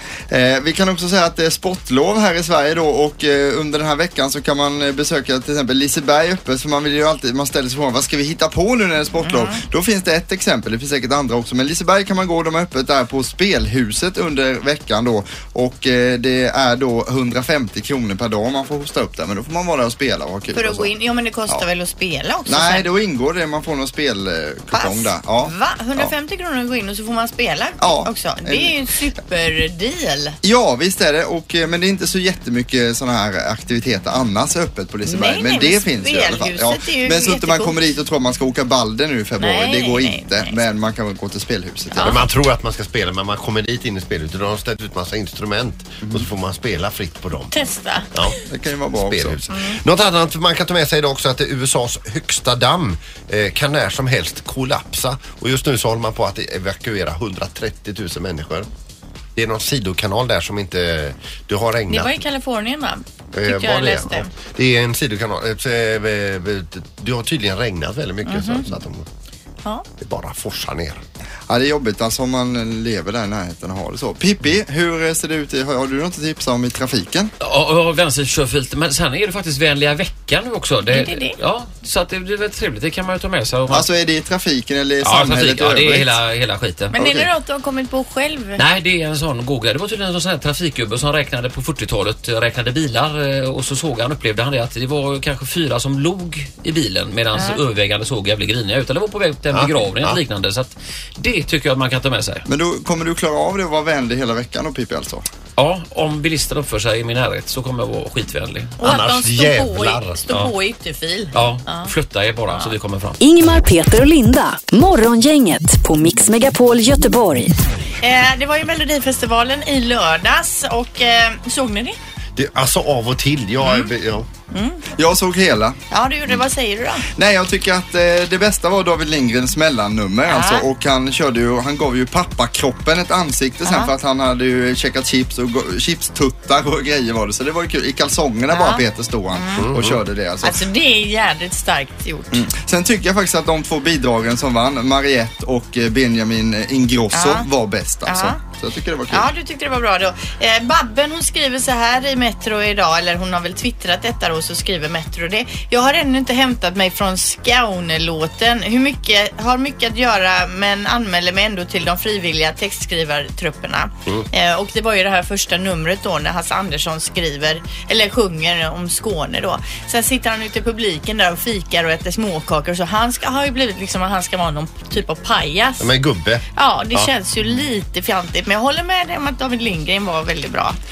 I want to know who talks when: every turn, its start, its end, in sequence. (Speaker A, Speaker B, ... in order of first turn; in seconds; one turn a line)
Speaker A: 0.3-20.9
Speaker B: 9.2-9.6
Speaker B: 20.5-22.9
Speaker A: 22.5-26.1
Speaker B: 24.7-30.4
Speaker A: 27.8-28.7
Speaker A: 30.4-42.2
Speaker B: 35.0-37.7
Speaker B: 39.4-40.6
Speaker B: 41.9-42.2
Speaker C: 42.0-47.5
Speaker B: 47.5-48.2
Speaker A: 48.5-49.4
Speaker C: 49.0-58.7
Speaker B: 49.5-49.8
Speaker C: 59.4-62.1
Speaker B: 61.9-64.3
Speaker C: 63.3-69.0
Speaker B: 68.2-68.7
Speaker C: 70.0-71.0
Speaker A: 71.5-77.3
Speaker D: 77.4-83.9
Speaker B: 80.9-81.4
Speaker A: 83.7-86.2
Speaker D: 85.0-86.9
Speaker B: 86.9-88.6
Speaker A: 86.9-87.3
Speaker D: 88.6-102.5
Speaker B: 97.3-97.6
Speaker C: 99.5-100.2
Speaker A: 102.5-105.2
Speaker D: 105.6-108.7
Speaker B: 108.8-111.9
Speaker C: 108.8-110.2
Speaker D: 111.3-113.2
Speaker E: 113.2-117.5
Speaker B: 118.0-122.0
Speaker C: 122.3-124.3
Speaker B: 123.6-123.9
Speaker B: 124.5-124.8
Speaker A: 125.0-125.8
Speaker B: 125.9-127.1
Speaker A: 127.1-140.6
Speaker B: 130.3-130.7
Speaker B: 133.7-133.9
Speaker B: 138.5-139.7
Speaker C: 139.6-140.0
Speaker B: 140.4-142.4
Speaker A: 142.3-149.3
Speaker B: 147.1-147.5
Speaker B: 148.0-148.4
Speaker B: 149.1-175.9
Speaker C: 175.8-177.1
Speaker B: 176.5-180.8